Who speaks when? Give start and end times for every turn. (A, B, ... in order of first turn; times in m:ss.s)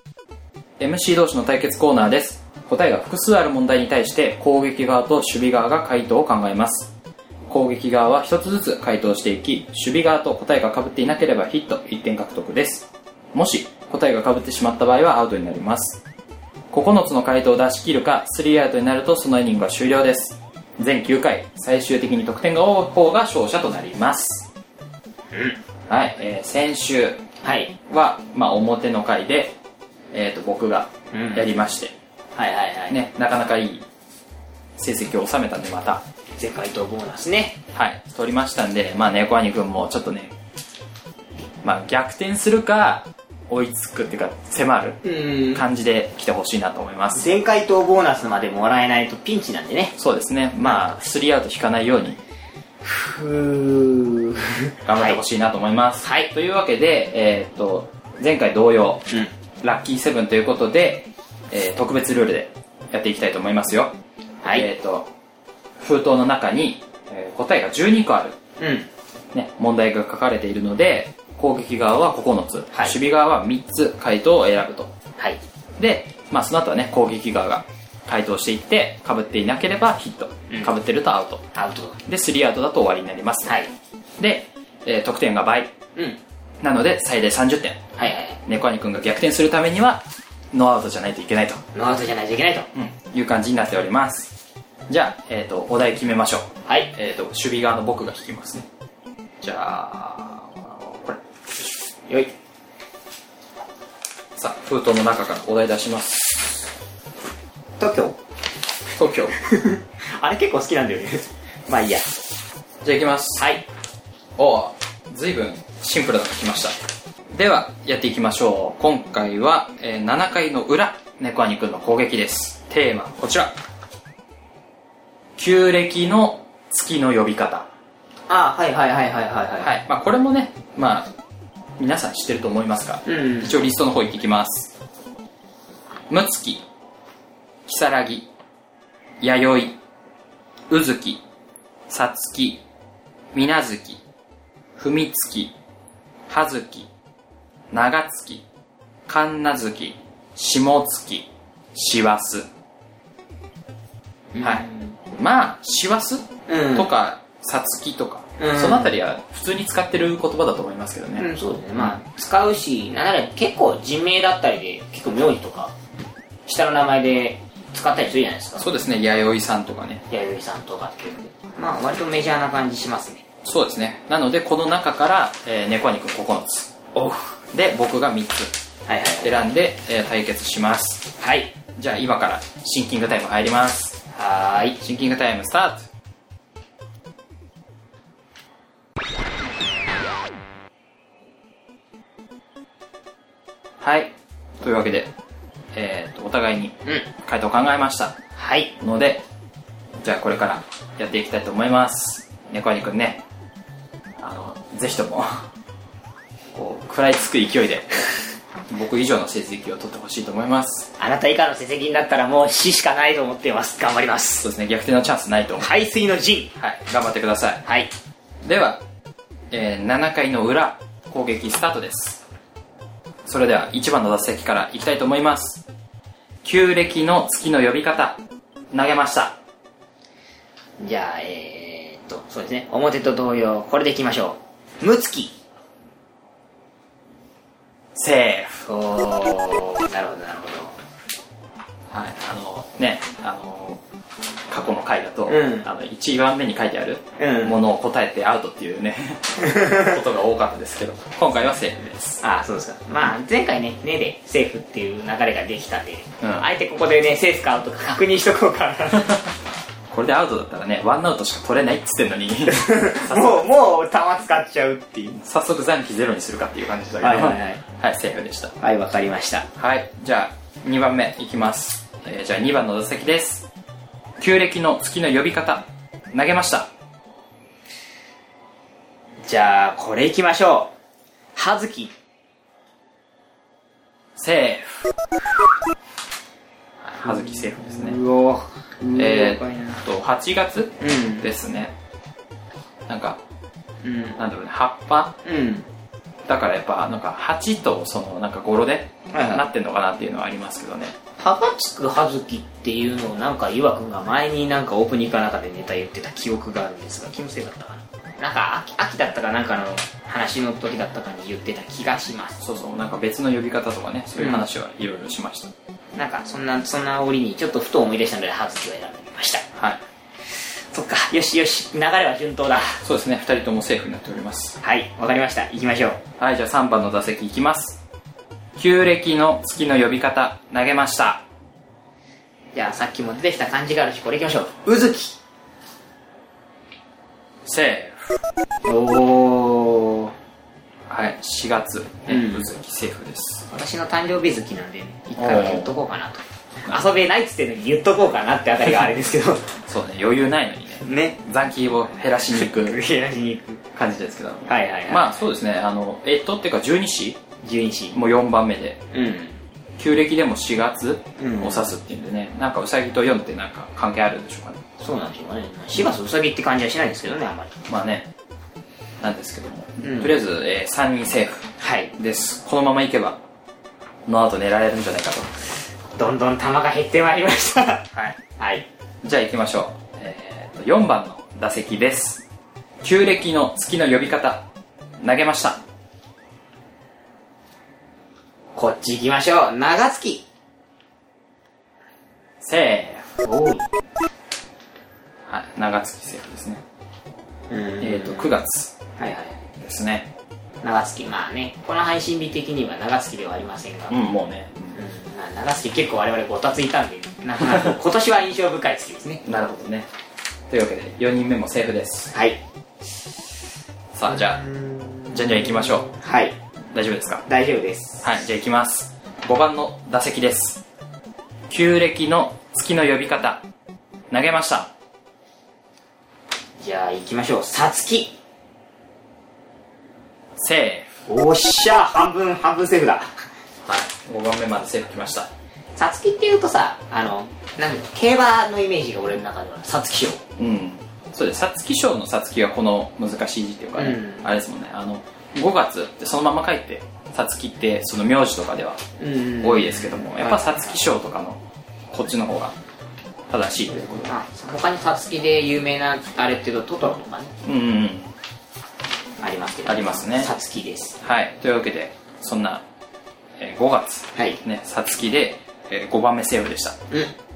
0:00.8-0:06.9 A
0:07.5-0:16.0 A
0:16.7-0:24.5 A
0:25.9-0:27.2 A
0:27.4-0:27.7 B
0:27.9-0:29.6 A
0:30.1-0:31.9 A
0:31.1-0:31.5 B
0:32.4-0:33.0 B
0:32.9-0:33.8 A
0:34.8-0:36.0 A
0:36.4-0:37.6 B
0:37.7-0:40.4 A
0:41.6-0:45.0 A
0:45.0-0:45.6 B
0:45.5-0:47.3 A
0:47.2-0:50.0 B
0:50.0-0:52.2 A
0:50.6-0:51.0 B
0:52.8-0:55.2 B
0:54.8-0:59.1 A
0:56.0-0:56.3 B
0:59.6-1:04.0 A
1:04.4-1:04.7 B
1:04.5-1:05.1 A
1:05.8-1:08.4 A
1:08.6-1:08.9 B
1:09.3-1:14.9 A
1:15.8-1:21.4 A
1:20.5-1:20.7 B
1:21.5-1:22.0 B
1:22.0-1:23.6 A
1:23.4-1:23.7 B
1:24.2-1:25.7 A
1:26.6-1:27.8 A
1:28.0-1:28.4 B
1:28.5-1:31.6 A
1:31.8-1:32.7 B
1:32.7-1:34.3 A
1:34.9-1:38.7 A
1:36.7-1:36.9 B
1:39.4-1:41.2 A
1:44.4-1:46.6 A
1:47.8-1:48.2 B
1:49.0-1:49.4 A
1:49.4-1:52.1 B
1:52.8-1:53.4 A
1:53.4-1:53.6 B
1:54.4-1:56.8 A
1:57.3-2:03.6 A
2:05.4-2:07.7 A
2:08.3-2:09.7 B
2:09.6-2:11.1 A
2:11.8-2:14.7 A
2:13.1-2:13.6 B
2:16.1-2:16.6 A
2:17.7-2:18.3 A
2:19.2-2:19.8 A
2:20.7-2:21.2 A
2:21.9-2:22.6 A
2:23.3-2:24.0 A
2:24.8-2:25.5 A
2:26.3-2:26.9 A
2:27.7-2:28.4 A
2:29.1-2:32.5 A
2:34.3-2:35.0 B
2:34.4-2:42.0 A
2:36.5-2:36.9 B
2:38.4-2:38.9 B
2:41.2-2:45.7 B
2:46.5-2:48.7 B
2:48.6-2:50.0 A
2:50.1-2:53.2 B
2:53.4-2:56.7 A
2:57.0-2:57.4 B
2:57.5-2:58.6 A
2:58.9-2:59.4 B
2:59.2-3:01.1 A
3:01.2-3:01.5 B
3:01.8-3:04.0 A
3:04.1-3:04.8 B
3:04.8-3:05.9 A
3:13.8-3:15.1 A
3:15.7-3:18.2 A
3:18.4-3:18.7 B
3:18.8-3:19.2 A
3:20.0-3:23.2 A
3:24.2-3:25.5 A
3:26.5-3:27.9 A
3:28.7-3:30.9 A
3:31.0-3:34.5 B
3:34.4-3:35.7 A
3:35.6-3:36.5 B
3:36.6-3:37.6 A
3:37.6-3:37.9 B
3:38.4-3:38.8 A
3:39.5-3:42.2 A
3:43.2-3:45.6 A
3:46.4-3:48.2 A
3:48.7-3:49.4 A
3:50.8-3:55.3 B
3:57.9-3:58.7 A
3:58.7-4:00.8 B
4:01.9-4:03.8 A
4:04.5-4:12.2 A
4:05.3-4:05.7 B
4:07.2-4:07.6 B
4:09.4-4:09.9 B
4:12.2-4:19.2 B
4:16.2-4:16.5 A
4:19.9-4:23.5 A
4:22.5-4:25.2 B
4:25.2-4:28.5 A
4:27.0-4:27.6 B
4:28.6-4:29.5 B
4:29.6-4:33.5 A
4:34.2-4:36.7 A
4:39.3-4:40.7 B
4:41.4-4:41.9 B
4:44.2-4:44.9 A
4:46.8-4:48.0 A
4:47.0-4:49.8 B
4:49.0-4:51.8 A
4:50.8-4:51.3 B
4:52.9-4:53.2 A
4:53.8-4:54.2 B
4:54.2-4:55.1 A
4:55.2-4:55.7 B
4:56.3-5:01.0 A
4:59.1-4:59.5 B
5:01.2-5:12.4 B
5:12.4-5:15.5 A
5:14.2-5:14.4 B
5:16.0-5:19.4 B
5:19.6-5:19.8 A
5:20.7-5:22.8 B
5:22.8-5:24.6 A
5:24.6-5:26.0 B
5:26.2-5:27.8 A
5:28.6-5:31.2 A
5:32.5-5:35.2 B
5:37.4-5:38.2 A
5:38.7-5:40.1 B
5:40.9-5:43.5 A
5:42.1-5:42.5 B
5:43.5-5:49.5 B
5:45.2-5:45.7 A
5:49.7-5:52.8 A
5:50.8-5:51.2 B
5:52.3-5:53.6 B
5:53.8-5:57.2 A
5:54.5-5:55.1 B
5:57.4-5:58.0 B
5:57.9-5:58.8 A
5:58.9-5:59.4 B
5:59.8-6:04.6 A
6:01.2-6:01.7 B
6:04.8-6:07.5 B
6:07.7-6:08.1 A
6:09.0-6:13.2 A
6:09.8-6:10.1 B
6:11.6-6:11.9 B
6:14.1-6:15.3 A
6:16.0-6:18.7 B
6:19.0-6:22.2 A
6:22.8-6:24.4 A
6:25.0-6:25.6 A
6:28.6-6:30.2 B
6:32.4-6:33.1 A
6:33.2-6:33.7 B
6:35.3-6:36.6 A
6:37.5-6:38.4 B
6:37.8-6:38.8 A
6:39.0-6:39.4 B
6:39.6-6:40.1 A
6:40.6-6:44.0 B
6:43.9-6:44.8 A
6:44.7-6:49.2 B
6:49.2-6:49.9 A
6:50.5-6:52.1 A
6:52.1-6:52.4 B
6:53.9-6:54.4 A
6:54.1-6:56.4 B
6:55.1-6:55.9 A
6:56.7-6:57.2 A
6:57.3-6:58.1 B
6:58.0-7:00.6 A
7:01.5-7:03.4 A
7:04.1-7:04.7 A
7:06.6-7:08.1 B
7:10.4-7:10.9 A
7:11.1-7:13.1 B
7:13.6-7:15.3 A
7:15.8-7:20.2 B
7:20.4-7:28.8 A
7:23.8-7:24.3 B
7:29.0-7:30.8 B
7:29.4-7:32.6 A
7:33.3-7:34.1 A
7:34.1-7:37.3 B
7:37.4-7:38.1 A
7:39.2-7:41.0 B
7:39.7-7:40.3 A
7:41.0-7:42.6 A
7:43.4-7:46.8 A